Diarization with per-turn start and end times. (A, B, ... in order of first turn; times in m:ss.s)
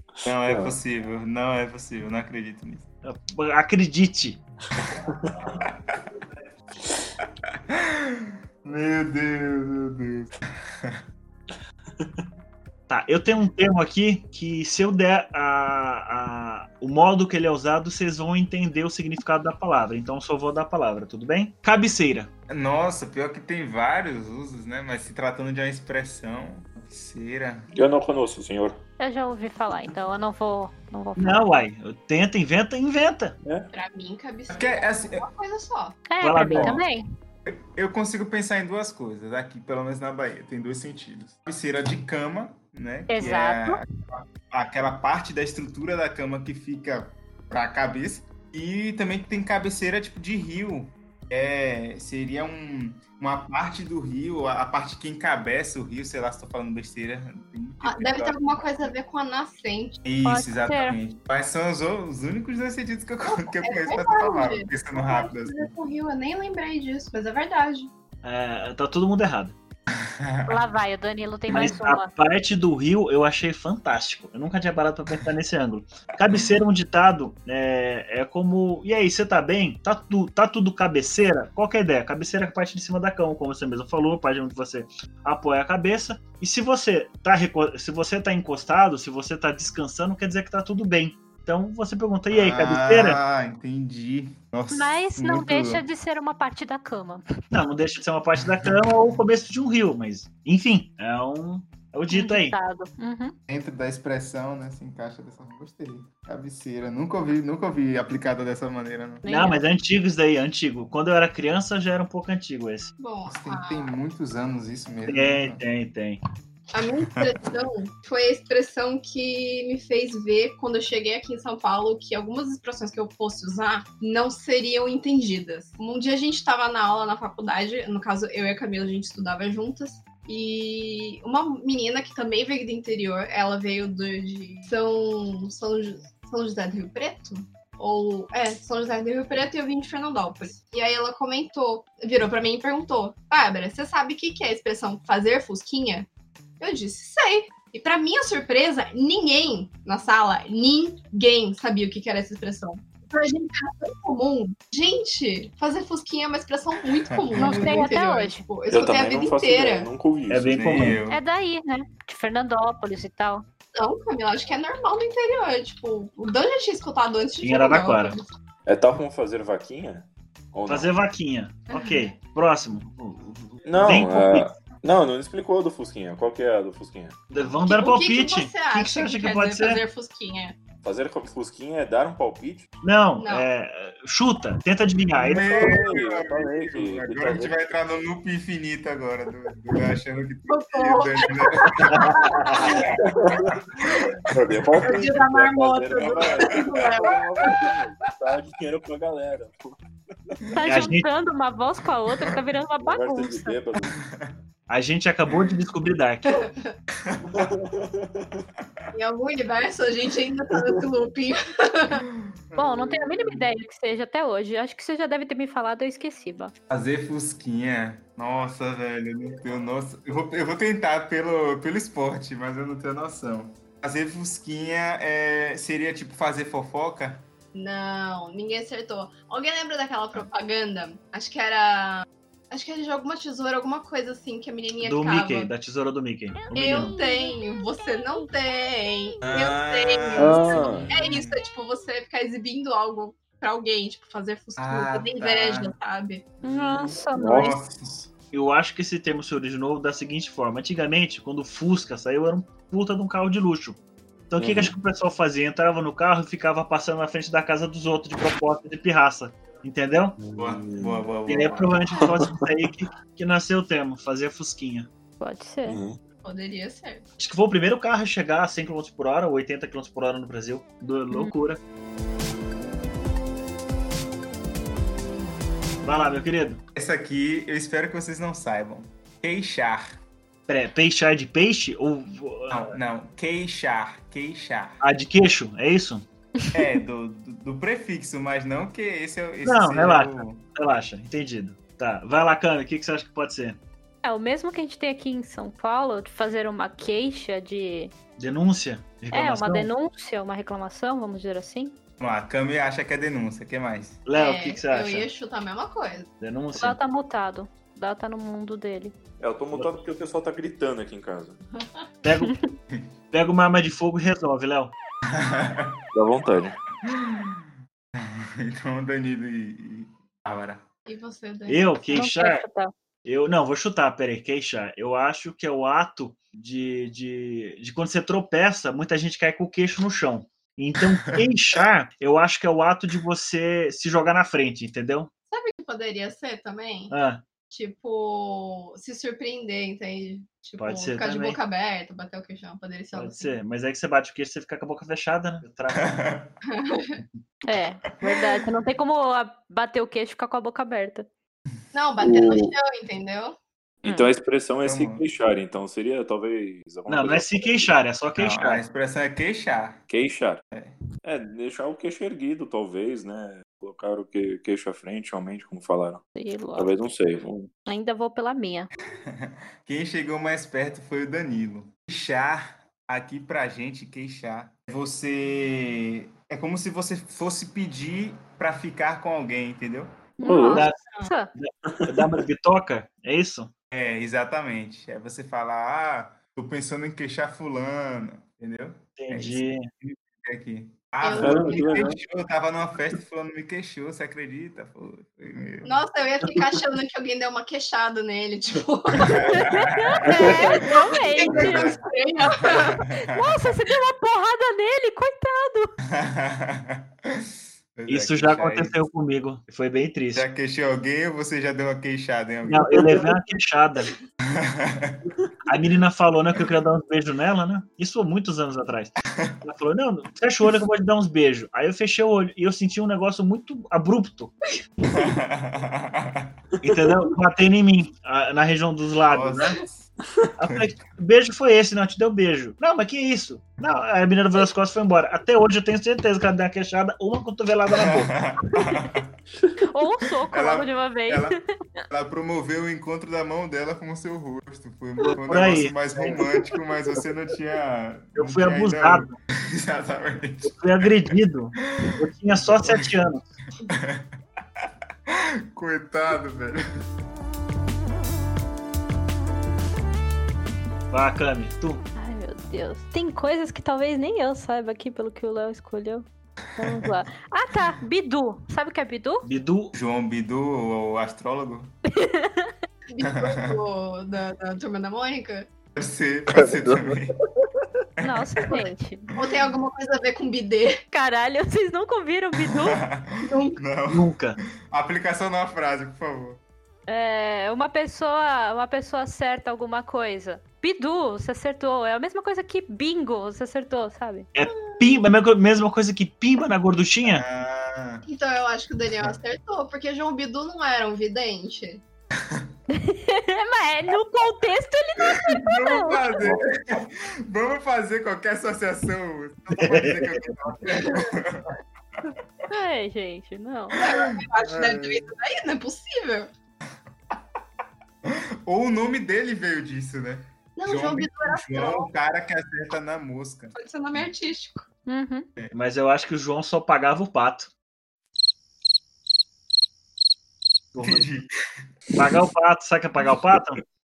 0:00.2-0:00.8 A
0:00.2-0:02.8 B
0:03.0-0:04.4 C
0:04.8-0:05.4 A
0:05.5-0:06.0 B
0:07.5-0:11.0 B
0:12.9-0:22.3 C
0:22.5-0:27.7 B
0:27.7-0:28.8 A
0:29.0-0:31.4 D
0:31.2-0:33.4 C
0:33.4-0:33.7 A
0:33.7-0:36.0 E
0:34.5-0:35.2 B
0:36.1-0:37.0 D
0:36.2-0:36.8 C
0:36.5-0:36.8 B
0:37.4-0:58.9 B
0:43.1-0:43.8 D
0:57.8-1:00.0 E
1:00.0-1:05.7 B
1:00.2-1:01.0 D
1:03.2-1:07.9 E
1:08.2-1:09.5 C
1:09.9-1:10.6 B
1:10.5-1:12.1 D
1:11.5-1:33.2 C
1:32.3-1:35.8 B
1:34.7-1:37.2 D
1:37.5-1:42.6 C
1:42.1-1:43.3 D
1:43.5-1:49.2 B
1:49.2-1:49.6 D
1:49.2-1:52.9 C
1:53.0-1:53.9 E
1:53.3-1:55.6 B
1:55.1-1:56.2 C
1:56.7-2:26.1 E
2:26.6-2:39.9 E
2:37.1-2:37.9 B
2:37.4-2:38.4 D
2:38.7-2:40.9 A
2:40.3-2:41.0 C
2:40.5-2:41.2 B
2:41.1-2:43.4 D
2:43.8-2:48.2 E
2:47.4-2:48.2 C
2:48.6-2:50.9 A
2:50.7-2:54.5 C
2:51.7-2:52.0 E
2:53.6-2:57.2 A
2:57.3-2:59.8 C
2:57.6-3:00.6 E
3:00.8-3:02.7 A
3:02.8-3:05.8 C
3:03.2-3:03.5 E
3:05.2-3:12.9 B
3:05.4-3:07.5 A
3:10.5-3:12.9 E
3:12.0-3:12.6 C
3:12.7-3:13.6 A
3:13.8-3:14.1 B
3:14.3-3:19.8 A
3:14.8-3:17.7 E
3:20.6-3:23.6 D
3:20.6-3:21.0 C
3:22.8-3:24.0 A
3:24.0-3:24.3 B
3:24.7-3:26.4 C
3:26.3-3:26.7 E
3:27.0-3:27.4 B
3:27.2-3:28.4 A
3:28.9-3:32.0 E
3:32.1-3:33.5 B
3:32.6-3:36.5 D
3:36.7-3:47.2 B
3:47.5-3:55.5 E
3:54.8-3:56.9 C
3:56.5-4:06.2 E
3:56.7-3:57.3 D
3:59.2-4:01.4 B
4:00.2-4:00.9 A
4:04.6-4:05.7 B
4:06.4-4:07.6 D
4:06.4-4:08.0 A
4:07.3-4:07.9 B
4:08.3-4:13.8 C
4:14.3-4:20.2 C
4:14.4-4:14.7 A
4:20.2-4:21.0 A
4:20.4-4:21.8 B
4:21.3-4:24.9 C
4:22.0-4:22.4 A
4:25.2-4:25.8 D
4:25.7-4:26.0 A
4:26.2-4:27.0 E
4:27.2-4:31.6 C
4:35.8-4:36.6 C
4:36.7-4:40.0 B
4:40.5-4:42.7 C
4:42.5-4:44.8 B
4:44.8-4:46.0 C
4:46.5-4:50.4 B
4:49.4-4:53.6 C
4:54.0-4:57.9 D
4:58.2-4:59.7 C
4:59.1-5:01.7 D
5:02.0-5:04.0 B
5:04.0-5:05.1 C
5:04.1-5:06.1 E
5:06.2-5:06.8 C
5:06.5-5:09.0 D
5:09.2-5:11.4 A
5:11.6-5:11.8 E
5:12.0-5:12.3 C
5:12.2-5:12.5 D
5:13.1-5:14.7 C
5:15.1-5:15.8 B
5:15.9-5:16.6 A
5:16.8-5:20.6 B
5:20.9-5:21.7 E
5:21.5-5:22.4 C
5:21.9-5:22.7 D
5:23.0-5:35.1 C
5:35.3-5:36.9 E
5:36.9-5:37.2 C
5:37.5-5:43.4 E
5:40.6-5:41.4 C
5:42.9-5:46.0 C
5:45.7-5:46.4 B
5:46.5-5:47.0 E
5:47.4-5:51.1 D
5:48.0-5:48.4 B
5:51.7-5:53.4 E
5:52.0-5:52.5 A
5:53.8-5:57.6 A
5:53.8-5:54.1 D
5:54.6-5:55.0 B
5:56.9-5:58.6 C
5:58.2-5:59.8 B
5:59.9-6:00.4 A
6:01.0-6:06.0 A
6:06.2-6:06.7 D
6:06.6-6:07.5 A
6:07.6-6:08.7 D
6:09.0-6:20.0 B
6:20.2-6:21.3 D
6:20.2-6:20.6 A
6:20.4-6:20.8 C
6:21.3-6:23.5 C
6:21.7-6:22.2 A
6:23.7-6:35.8 B
6:29.0-6:29.7 C
6:31.0-6:31.9 E
6:31.2-6:32.0 A
6:35.6-6:39.5 E
6:39.0-6:41.8 B
6:39.4-6:41.8 D
6:40.0-6:40.6 A
6:40.2-6:42.8 E
6:42.5-6:43.3 B
6:43.0-6:45.7 D
6:45.9-6:48.8 B
6:47.9-6:50.3 C
6:50.1-6:53.0 B
6:52.5-6:53.9 C
6:54.2-6:55.0 B
6:55.4-7:04.3 C
7:04.8-7:06.3 B
7:06.6-7:09.6 C
7:09.1-7:09.9 B
7:10.4-7:18.1 C
7:17.7-7:19.1 B
7:19.7-7:21.8 D
7:20.3-7:30.9 B
7:25.0-7:26.2 C
7:28.2-7:29.2 C
7:30.4-7:33.3 C
7:31.6-7:32.9 B
7:33.6-7:36.6 B
7:40.9-7:41.8 C
7:42.0-7:46.0 D
7:46.6-7:49.2 D
7:46.6-7:46.8 B
7:49.2-7:49.7 C
7:49.7-7:51.7 B
7:51.9-7:52.5 D
7:52.9-7:55.5 E
7:53.0-7:53.6 B
7:55.7-7:57.1 B
7:56.3-7:57.8 A
7:58.0-7:58.6 B
7:58.0-7:59.1 D
7:59.1-8:00.8 E
7:59.2-7:59.5 B
8:00.9-8:02.8 D
8:02.5-8:04.2 B
8:03.2-8:03.6 E
8:03.9-8:04.4 C
8:04.7-8:06.4 B
8:06.9-8:14.3 D
8:14.3-8:17.2 C
8:14.5-8:14.9 E
8:17.0-8:18.0 B
8:18.0-8:21.8 E
8:22.2-8:22.5 B
8:22.7-8:26.2 D
8:25.1-8:32.2 B
8:26.2-8:26.5 A
8:29.6-8:30.6 C
8:30.7-8:31.1 E
8:32.5-8:33.8 D
8:33.7-8:35.1 B
8:33.8-8:36.3 E
8:38.0-8:44.0 B
8:40.6-8:41.9 E
8:43.5-8:44.6 E
8:44.8-8:45.3 D
8:45.5-8:47.5 C
8:50.7-8:51.1 C
8:50.8-8:51.3 B
8:51.9-8:53.6 C